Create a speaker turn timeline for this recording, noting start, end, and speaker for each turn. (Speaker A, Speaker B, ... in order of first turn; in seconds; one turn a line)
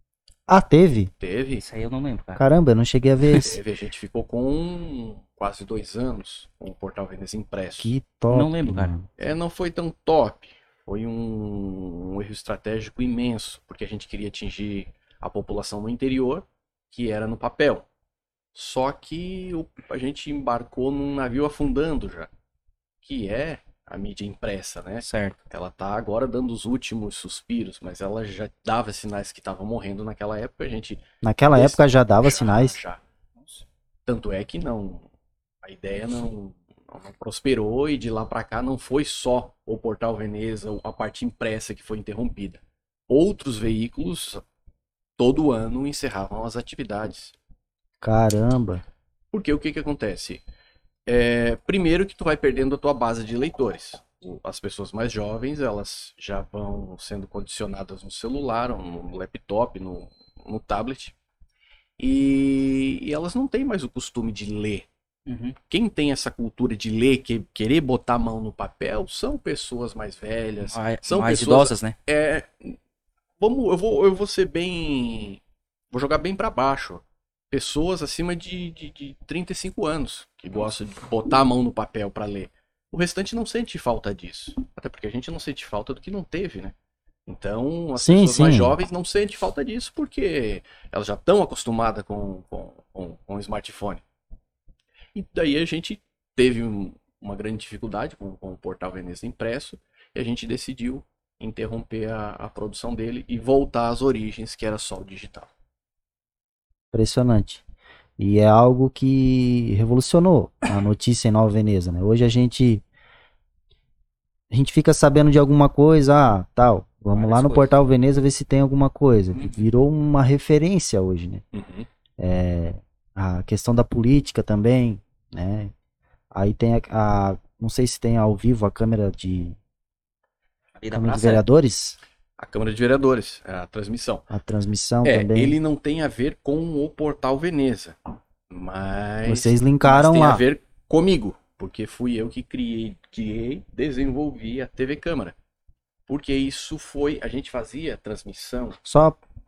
Speaker A: 0.5-1.1
Speaker B: 1.2-1.6
Speaker C: 1.6-2.4
Speaker A: 2.4-3.6
Speaker B: 3.3-7.9
Speaker A: 7.8-9.1
Speaker C: 8.3-8.9
Speaker B: 9.2-17.9
Speaker B: 18.5-22.3
Speaker B: 23.0-31.0
Speaker C: 25.0-25.4
Speaker A: 31.2-32.8
Speaker B: 31.5-33.0
Speaker B: 34.0-35.1
Speaker B: 35.6-44.4
Speaker B: 45.2-47.3
Speaker A: 48.0-48.8
Speaker B: 49.3-50.4
Speaker B: 51.0-61.1
Speaker B: 62.0-64.9
Speaker C: 65.2-65.6
Speaker B: 65.7-72.8
Speaker C: 70.6-72.0
Speaker B: 73.4-75.4
Speaker B: 75.9-86.7
Speaker B: 87.3-94.0
Speaker A: 88.0-88.7
Speaker B: 95.1-105.5
Speaker A: 106.9-107.6
Speaker A: 108.2-112.8
Speaker A: 114.5-121.4
Speaker C: 117.1-117.9
Speaker C: 119.3-119.7
Speaker B: 121.5-121.9
Speaker A: 122.2-125.7
Speaker A: 126.3-129.6
Speaker C: 130.8-131.4
Speaker A: 130.9-132.0
Speaker B: 132.4-134.3
Speaker A: 134.3-135.6
Speaker B: 135.0-137.9
Speaker B: 138.5-145.3
Speaker A: 139.2-140.4
Speaker B: 146.1-148.8
Speaker A: 148.8-149.2